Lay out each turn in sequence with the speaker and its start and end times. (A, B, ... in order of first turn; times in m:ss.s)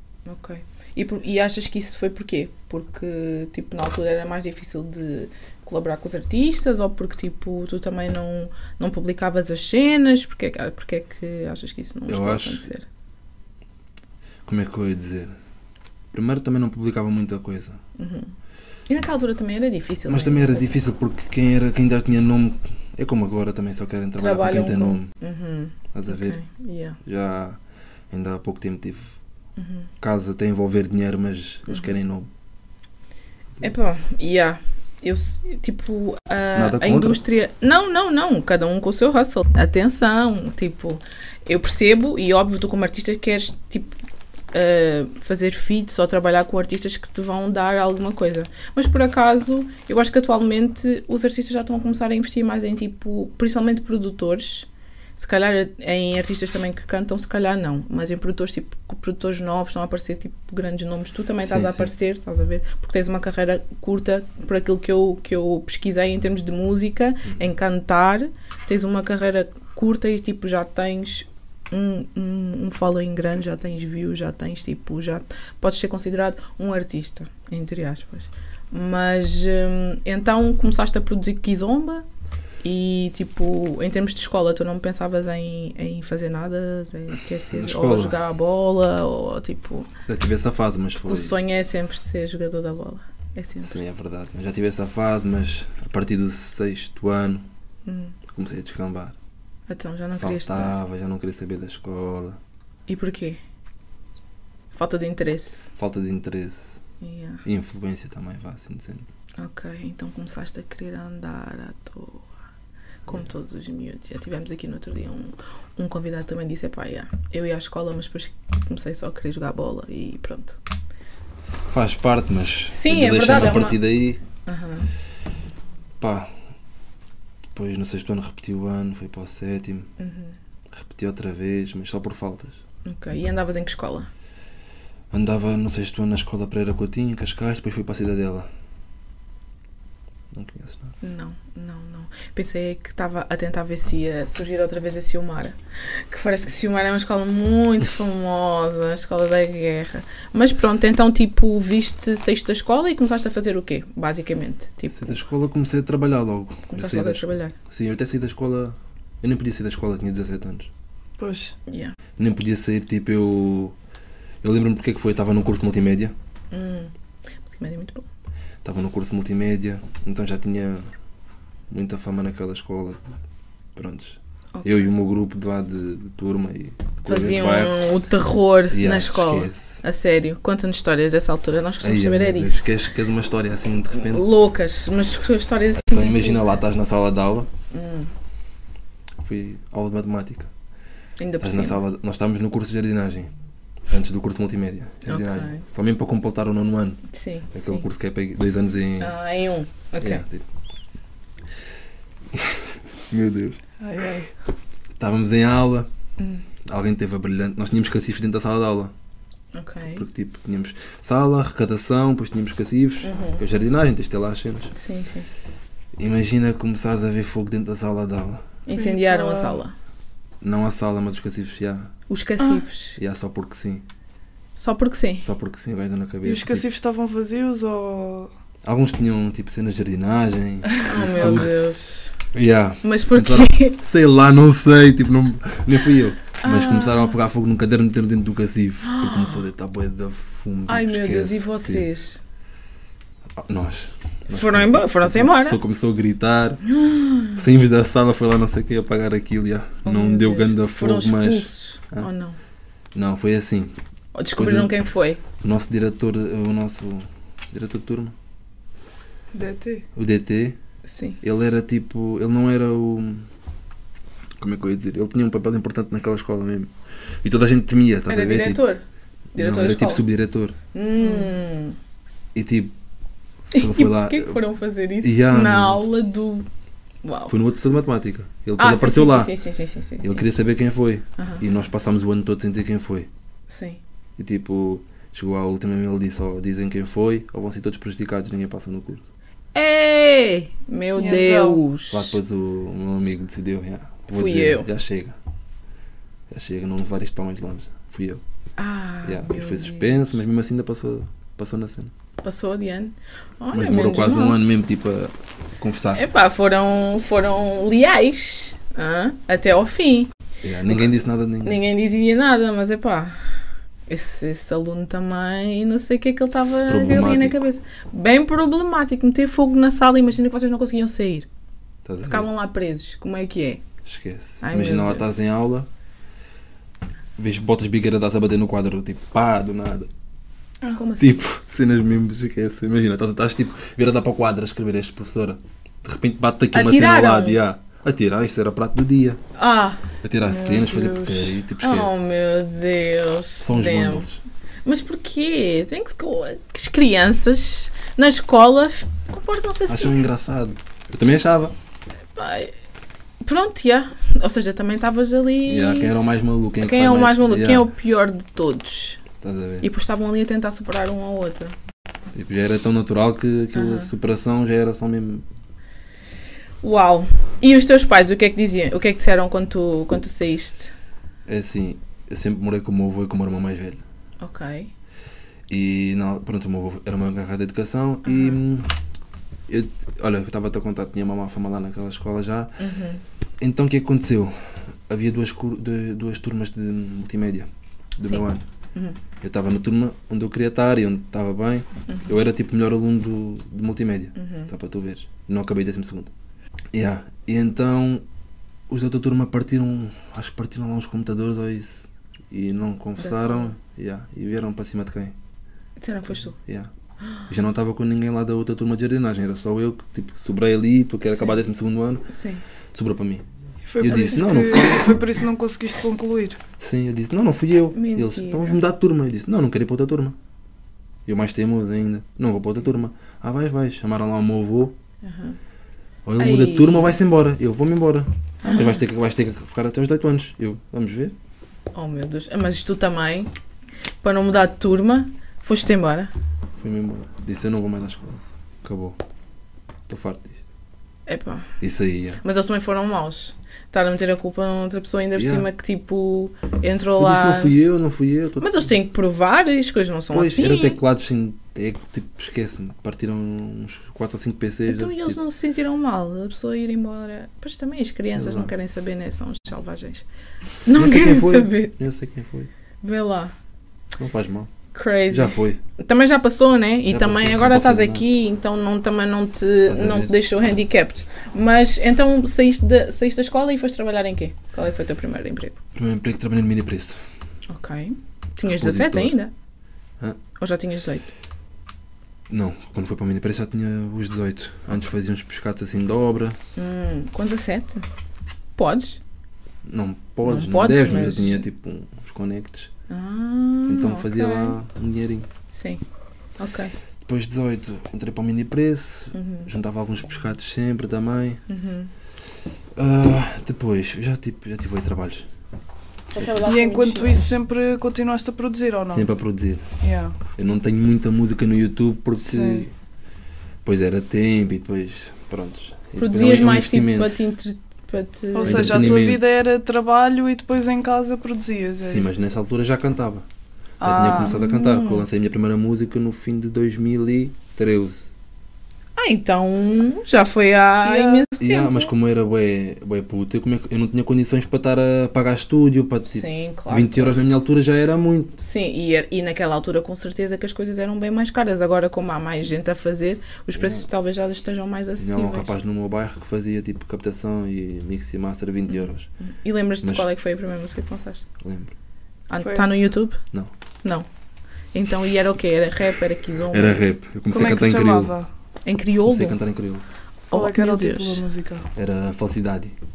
0:00.3-0:12.8 A
0:12.1-0:12.7 B
0:14.4-0:15.3 B
0:16.1-0:17.8 B
0:18.0-0:18.3 A
0:18.9-0:20.8 A
0:20.1-0:25.1 B
0:24.2-0:27.0 A
0:25.9-0:26.4 B
0:27.0-0:27.6 B
0:28.1-0:29.2 B
0:29.6-0:29.9 A
0:30.0-0:32.3 B
0:31.7-0:32.0 A
0:33.6-0:44.0 A
0:36.6-0:37.2 B
0:44.5-1:22.0 A
1:01.4-1:01.9 B
1:07.2-1:07.5 B
1:22.6-1:29.9 A
1:27.5-1:28.2 B
1:30.1-1:31.4 B
1:31.1-1:33.8 A
1:33.6-1:37.5 B
1:37.8-1:38.2 A
1:38.3-1:39.2 B
1:39.7-1:40.8 A
1:40.2-1:42.4 B
1:42.9-1:43.4 A
1:44.7-1:45.7 A
1:45.8-1:46.8 B
1:47.0-1:47.4 A
1:47.4-1:49.1 B
1:49.4-1:52.3 A
1:53.1-2:00.6 A
2:01.7-2:04.2 B
2:02.7-2:03.8 A
2:04.5-2:04.9 A
2:06.0-2:06.3 B
2:07.6-2:09.9 B
2:10.0-2:10.4 A
2:10.7-2:12.6 B
2:12.8-2:14.1 A
2:15.1-2:18.5 B
2:20.3-2:20.9 B
2:21.0-2:35.2 A
2:34.9-2:40.7 B
2:36.7-2:37.6 A
2:41.2-2:41.6 C
2:41.7-2:42.0 A
2:42.2-2:43.8 B
2:44.4-2:46.1 B
2:46.5-2:46.9 A
2:47.4-2:48.1 A
2:48.6-2:50.9 B
2:51.7-2:53.2 B
2:53.8-2:57.8 B
2:54.6-2:54.9 A
2:57.1-3:02.7 A
2:58.7-2:59.8 B
3:01.8-3:04.3 B
3:03.9-3:06.4 A
3:05.8-3:07.5 B
3:07.7-3:08.1 A
3:09.2-3:10.5 B
3:11.2-3:11.8 A
3:11.4-3:13.3 B
3:13.9-3:17.0 B
3:15.1-3:15.6 A
3:17.1-3:17.9 A
3:17.5-3:19.2 B
3:19.0-3:20.2 A
3:20.0-3:20.4 B
3:22.3-3:23.6 B
3:23.8-3:24.3 C
3:25.0-3:25.9 B
3:26.2-3:26.4 A
3:26.6-3:28.9 B
3:29.5-3:30.1 A
3:29.9-3:34.7 B
3:33.0-3:33.4 A
3:34.8-3:35.3 A
3:36.0-3:38.5 B
3:38.7-3:39.7 A
3:38.7-3:39.6 C
3:40.4-3:41.9 B
3:42.1-3:43.0 A
3:43.0-3:43.8 B
3:44.6-3:45.3 A
3:45.2-3:46.7 B
3:46.2-3:48.3 C
3:48.6-3:51.5 B
3:50.8-3:52.2 A
3:51.1-3:51.5 C
3:52.3-4:01.9 B
3:52.8-3:53.8 A
3:56.4-3:57.2 A
3:58.8-3:59.4 A
4:00.7-4:02.2 A
4:03.4-4:06.6 B
4:04.3-4:05.6 A
4:06.7-4:07.4 A
4:07.4-4:12.1 B
4:09.8-4:12.4 A
4:12.9-4:13.7 B
4:14.2-4:15.2 A
4:14.4-4:14.8 B
4:15.4-4:18.2 B
4:19.3-4:19.8 C
4:20.0-4:20.6 B
4:20.8-4:21.2 A
4:21.2-4:23.3 B
4:24.4-4:28.6 B
4:28.1-4:28.8 A
4:29.4-4:30.0 A
4:29.4-4:30.6 B
4:30.7-4:31.8 A
4:31.0-4:31.3 C
4:32.4-4:32.7 B
4:33.5-4:34.4 B
4:33.5-4:36.5 A
4:35.0-4:35.8 B
4:37.0-4:37.3 A
4:37.3-4:39.3 B
4:38.6-4:40.3 A
4:40.0-4:43.1 B
4:41.2-4:41.4 A
4:43.5-4:43.8 A
4:44.2-4:49.1 B
4:49.6-4:52.2 A
4:51.0-4:51.6 C
4:51.9-4:55.2 B
4:54.1-4:54.7 A
4:56.3-4:58.2 B
4:58.6-5:00.2 A
4:59.0-5:01.9 B
5:02.2-5:04.4 A
5:03.5-5:06.0 B
5:05.9-5:10.1 A
5:10.4-5:11.6 B
5:10.7-5:13.4 A
5:13.9-5:21.3 A
5:16.7-5:17.4 B
5:21.8-5:22.3 B
5:22.1-5:23.6 A
5:23.8-5:25.7 B
5:24.4-5:25.2 A
5:27.2-5:29.9 B
5:30.7-5:31.2 A
5:31.0-5:39.2 B
5:36.5-5:37.4 A
5:39.4-5:39.8 A
5:40.0-5:42.1 B
5:40.2-5:41.4 C
5:41.6-5:44.1 A
5:43.4-5:44.2 B
5:44.6-5:50.0 A
5:49.7-5:51.6 B
5:52.2-5:52.5 A
5:53.2-5:55.9 A
5:55.5-5:57.7 B
5:56.6-5:59.0 A
5:59.2-5:59.7 B
5:59.6-6:01.6 A
6:02.1-6:05.2 B
6:03.5-6:03.9 A
6:06.6-6:10.7 A
6:11.3-6:13.8 B
6:14.2-6:14.7 A
6:15.5-6:18.7 B
6:18.0-6:18.4 A
6:19.5-6:22.6 B
6:22.6-6:23.0 A
6:23.4-6:28.4 B
6:28.0-6:29.0 A
6:29.2-6:36.1 B
6:31.9-6:32.1 A
6:34.2-6:34.5 A
6:36.7-6:38.0 B
6:38.7-6:45.2 B
6:43.0-6:43.6 A
6:45.8-6:46.4 A
6:46.4-6:46.7 B
6:47.3-6:52.1 B
6:51.1-6:51.4 A
6:52.1-6:52.4 A
6:52.7-6:53.2 B
6:53.7-6:56.4 C
6:53.8-6:55.0 B
6:56.6-7:00.2 B
6:57.7-6:58.6 A
7:01.1-7:04.8 B
7:05.0-7:05.4 A
7:06.1-7:11.2 B
7:06.2-7:07.0 A
7:08.4-7:08.8 A
7:11.7-7:13.3 A
7:14.0-7:16.1 A
7:16.6-7:19.0 B
7:19.9-7:20.4 B
7:21.1-7:21.5 A
7:21.6-7:22.2 B
7:22.2-7:27.6 A
7:25.2-7:25.5 B
7:27.0-7:28.7 B
7:28.4-7:30.8 A
7:30.1-7:35.2 B
7:34.7-7:40.1 A
7:38.2-7:38.5 B
7:40.6-7:41.7 A
7:40.7-7:42.5 B
7:42.8-7:43.3 A
7:44.0-7:44.5 B
7:44.7-7:55.6 A
7:45.1-7:45.6 B
7:46.9-7:48.0 B
7:49.7-7:50.1 B
7:55.8-7:57.0 B
7:57.5-7:59.3 A
7:58.4-7:59.2 B
8:00.4-8:01.1 A
8:02.3-8:06.4 B
8:06.6-8:07.8 A
8:08.6-8:09.0 A
8:09.6-8:12.7 B
8:10.2-8:11.4 A
8:12.9-8:14.6 A
8:13.7-8:15.3 B
8:15.5-8:15.8 A
8:16.4-8:16.7 A
8:17.0-8:21.4 B
8:19.1-8:19.5 A
8:21.5-8:21.9 A
8:22.8-8:25.3 B
8:26.1-8:27.4 A
8:26.4-8:29.1 C
8:28.9-8:29.6 B
8:29.8-8:30.2 C
8:30.4-8:32.7 B
8:32.2-8:32.7 C
8:33.6-8:37.2 B
8:36.0-8:39.0 A
8:38.3-8:42.1 C
8:38.4-8:39.3 B
8:41.8-8:43.3 B
8:43.8-8:44.4 C
8:43.8-8:48.0 B
8:44.0-8:45.1 A
8:49.0-8:51.9 A
8:50.8-8:51.2 C
8:51.4-8:58.4 B
8:56.1-8:57.2 A
8:58.4-9:05.5 A
9:03.5-9:03.9 B
9:05.0-9:09.1 B
9:08.7-9:11.3 A
9:11.4-9:11.7 B
9:12.3-9:13.2 A
9:12.4-9:12.9 C
9:14.7-9:16.8 A
9:16.5-9:18.2 B
9:17.3-9:18.3 C
9:18.7-9:19.4 A
9:19.1-9:19.9 B
9:20.3-9:21.2 A
9:20.3-9:21.7 C
9:21.8-9:22.8 B